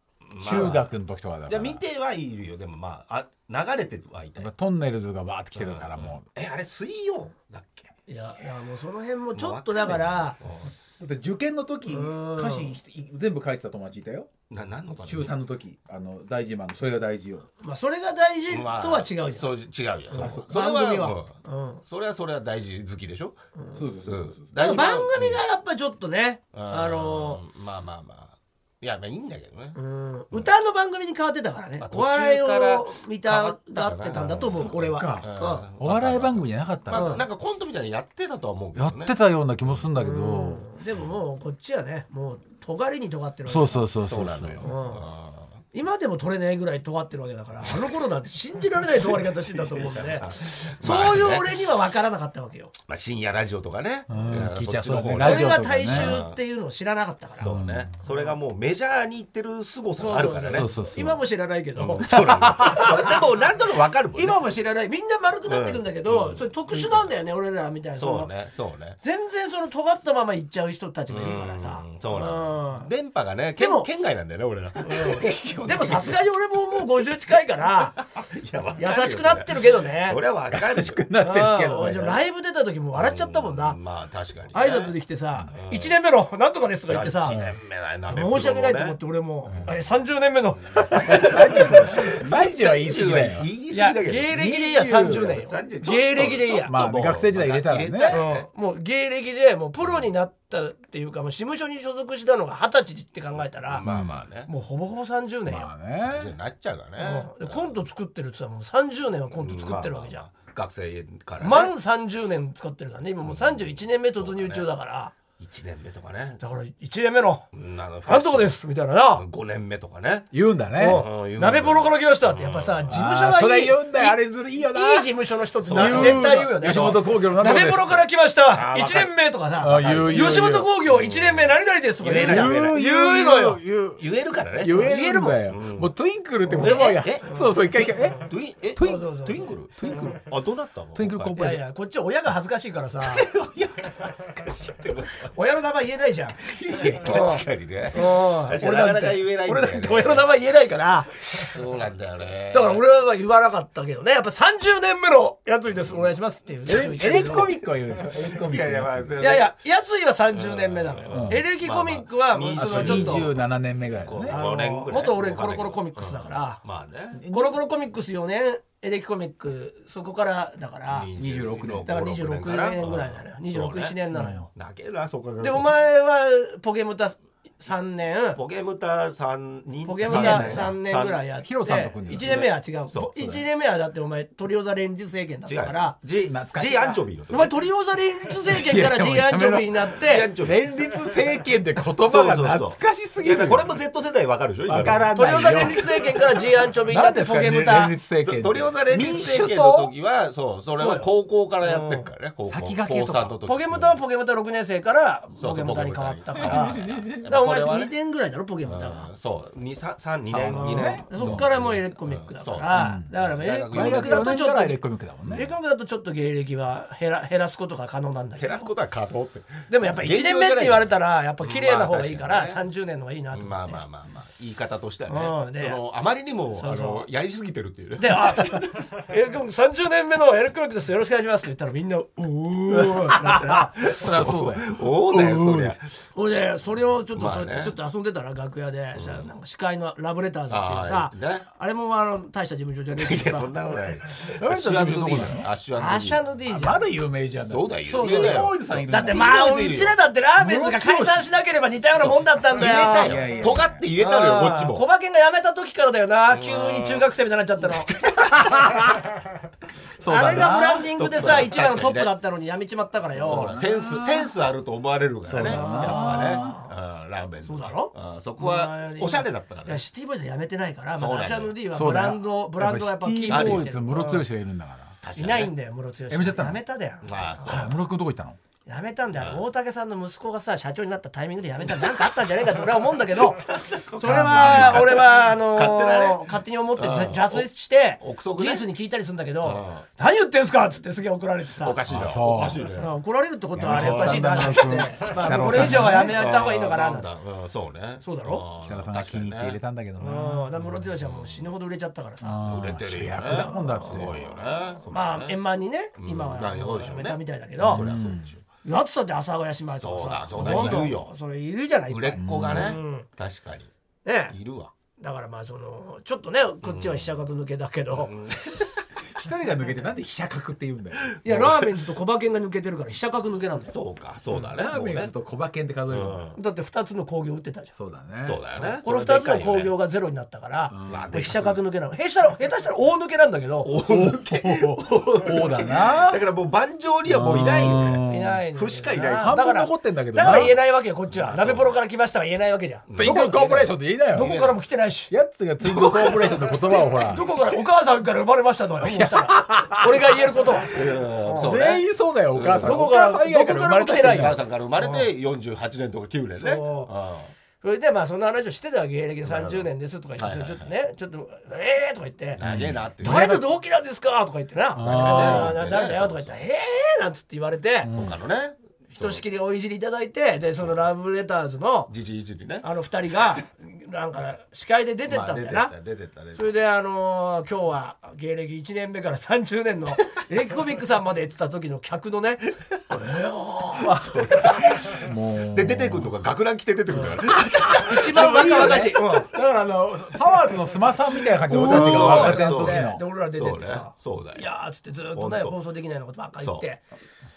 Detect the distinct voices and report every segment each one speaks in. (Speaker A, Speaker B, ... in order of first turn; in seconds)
Speaker A: 0.2-0.9, 1.5-4.5, 5.5-7.9, 9.3-10.7, 14.5-15.3, 18.5-23.4, 24.1-25.4, 26.5-29.8, 31.8-39.1, 44.0-45.6, 49.5-51.6, 52.9-56.4, 57.4-60.8, 61.8-64.4, 65.5-67.0, 68.0-69.0, 71.1-76.2, 78.0-81.0, 82.9-84.9, 85.5-86.0, 86.9-89.0, 90.7-94.4, 95.0-98.5, 103.6-104.5, 106.0-107.7, 109.4-111.7, 113.2-114.7, 115.4-116.4, 117.5-118.6, 119.1-122.9, 125.6-127.9, 128.5-129.2, 129.8-132.8, 134.0-134.9, 135.4-135.9, 136.6-137.3, 138.1-141.4, 143.0-145.3, 147.0-150.3, 151.4-152.8, 155.7-159.5, 160.3-163.4, 164.0-167.2, 170.9-174.0, 174.5-175.7, 178.3-181.2, 181.9-183.4, 185.4-187.5, 190.0-190.6, 192.0-196.1, 198.2-203.9, 205.4-207.9, 208.7-214.4, 215.2-215.5, 218.4-222.6, 223.3-228.7, 233.2-236.0, 237.1-237.8, 238.9-239.3, 240.5-241.4, 243.0-246.2, 247.5-249.9, 251.9-254.8, 256.3-257.1, 257.6-258.8, 260.9-262.1, 263.2-269.8, 270.9-271.6, 273.3-273.7, 275.0-275.5, 277.0-277.8, 279.1-279.4, 281.6-287.5, 288.0-288.7, 289.4-289.9, 291.6-292.9, 293.7-294.5, 295.2-299.6, 301.0-301.5, 302.4-305.4, 306.0-308.4, 309.8-311.1, 311.9-313.7, 314.3-314.7, 316.6-317.1, 317.9-318.7, 321.1-321.6, 323.7-325.1, 325.9-326.4, 328.2-329.7, 330.9-331.6, 333.6-339.5, 340.2-340.5, 341.1-341.8, 342.9-344.6, 345.6-346.6, 350.6-352.8, 354.0-357.3, 359.2-360.7, 362.4-363.3, 364.9-366.4, 367.9-369.2, 371.9-372.7, 375.1-376.5, 384.1-388.8, 391.5-394.5, 395.1-395.6
Speaker B: 0.4-1.8, 4.4-6.2, 11.0-14.3, 15.0-17.5, 23.7-24.4, 34.5-37.2, 38.8-40.6, 43.5-44.7, 54.1-56.2, 57.4-57.9, 60.5-61.2, 62.1-62.9, 80.5-82.2, 91.0-93.5, 94.3-95.4, 96.7-98.2, 103.8-104.2, 105.5-106.3, 120.3-121.0, 122.9-125.1, 125.7-127.9, 129.6-130.7, 132.2-134.0, 134.6-139.1, 139.8-140.3, 140.9-141.6, 146.5-147.2, 156.6-159.2, 161.1-161.4, 162.5-164.4, 167.1-167.6, 171.2-172.0, 174.1-174.4, 180.0-180.8, 181.4-182.5, 186.2-187.0, 188.5-193.7, 194.7-199.9, 202.5-203.3, 206.4-207.3, 210.3-211.5, 212.7-213.1, 213.7-215.4, 233.8-235.8, 244.2-245.5, 246.5-251.3, 252.5-253.8, 260.0-260.9, 263.2-264.3, 265.3-266.6, 271.7-274.9, 276.1-276.6, 277.4-278.4, 284.0-284.9, 291.9-292.6, 293.6-296.1, 298.6-300.9, 302.2-304.1, 307.6-308.3, 310.4-310.9, 312.1-312.8, 319.1-321.1, 324.3-326.2, 327.8-328.4, 330.7-331.1, 333.8-336.2, 337.1-338.4, 339.0-340.5, 343.0-344.4, 345.1-347.3, 348.8-350.1, 351.4-354.4, 362.4-363.5, 364.7-365.6, 367.8-368.1, 383.8-386.1, 387.7-393.0
Speaker C: 8.1-10.4, 11.8-12.8, 17.6-19.6, 20.1-21.8, 23.5-23.9, 24.5-27.4, 29.7-35.6, 36.9-37.2, 40.0-43.8, 44.6-45.1, 45.7-52.7, 55.2-58.3, 60.0-63.1, 64.1-68.3, 69.0-72.9, 73.6-73.9, 74.8-78.0, 78.8-80.2, 81.2-83.8, 84.5-87.4, 88.1-92.1, 93.7-96.7, 98.1-103.8, 104.5-105.7, 107.0-110.2, 111.4-115.1, 116.4-117.5, 118.0-119.2, 120.8-133.6, 134.7-135.4, 136.4-138.1, 138.8-139.5, 141.3-143.3, 145.3-146.4, 147.0-151.5, 152.5-157.5, 159.2-163.3, 164.3-166.6, 167.3-171.1, 171.8-174.5, 175.4-178.4, 179.8-185.9, 187.3-190.3, 195.1-197.9, 200.8-201.1, 201.6-202.1, 203.4-209.1, 210.6-214.8, 215.3-218.7, 219.7-223.8, 225.1-225.8, 226.6-227.1, 228.0-233.8, 236.1-243.5, 245.7-246.8, 247.8-253.3, 254.0-258.6, 260.1-263.6, 265.4-266.7, 267.4-274.2, 275.1-277.6, 278.6-291.8, 292.8-297.1, 298.0-298.4, 300.0-302.4, 303.2-304.1, 304.9-307.9, 308.6-313.1, 314.0-314.3, 315.0-318.1, 321.2-323.7, 326.3-327.7, 328.8-333.7, 338.1-345.1, 346.5-351.6, 352.6-355.1, 356.4-356.9, 357.6-362.4, 363.0-367.9, 368.9-371.9, 372.6-375.7, 376.3-384.6, 387.0-389.3, 391.5-396.8